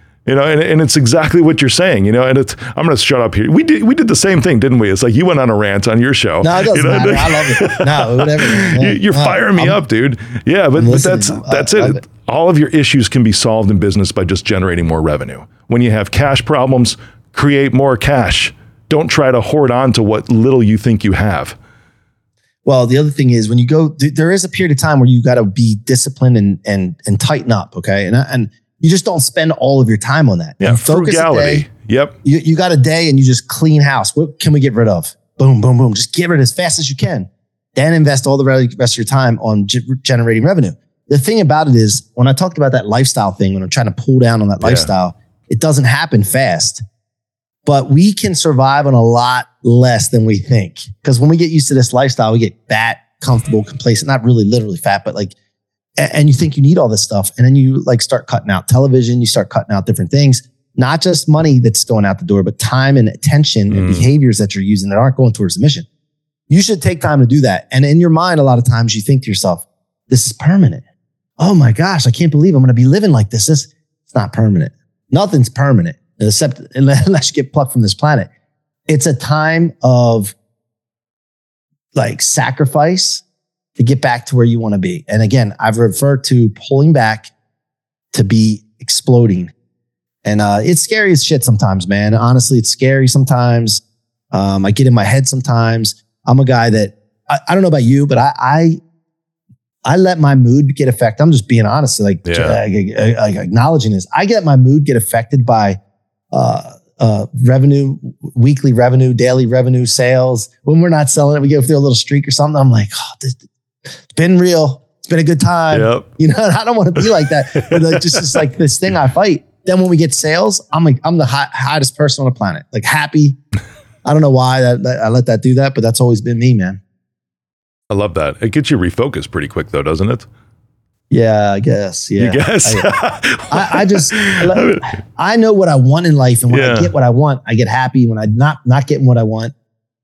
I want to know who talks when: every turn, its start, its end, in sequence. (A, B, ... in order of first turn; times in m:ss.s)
0:00.2-0:21.6 A
0:06.4-0:09.8 B
0:10.8-0:12.0 B
0:22.6-0:31.6 B
0:30.6-0:32.1 A
0:32.2-0:46.8 B
0:44.6-0:44.9 A
0:47.6-0:55.3 B
0:56.0-1:05.9 B
1:03.7-1:04.1 A
1:06.5-1:10.8 B
1:11.4-1:18.3 B
1:18.9-1:20.3 B
1:21.9-1:23.2 B
1:23.8-1:27.3 B
1:28.1-1:29.5 B
1:30.2-1:38.8 B
1:39.8-1:45.8 B
1:42.2-1:42.6 A
1:46.3-1:53.4 B
1:54.1-2:03.4 B
1:55.7-1:56.0 A
1:57.5-1:58.4 A
2:04.0-2:06.8 B
2:07.9-2:10.3 A
2:11.1-2:13.0 B
2:12.2-2:14.9 A
2:13.5-2:19.5 B
2:16.5-2:16.9 A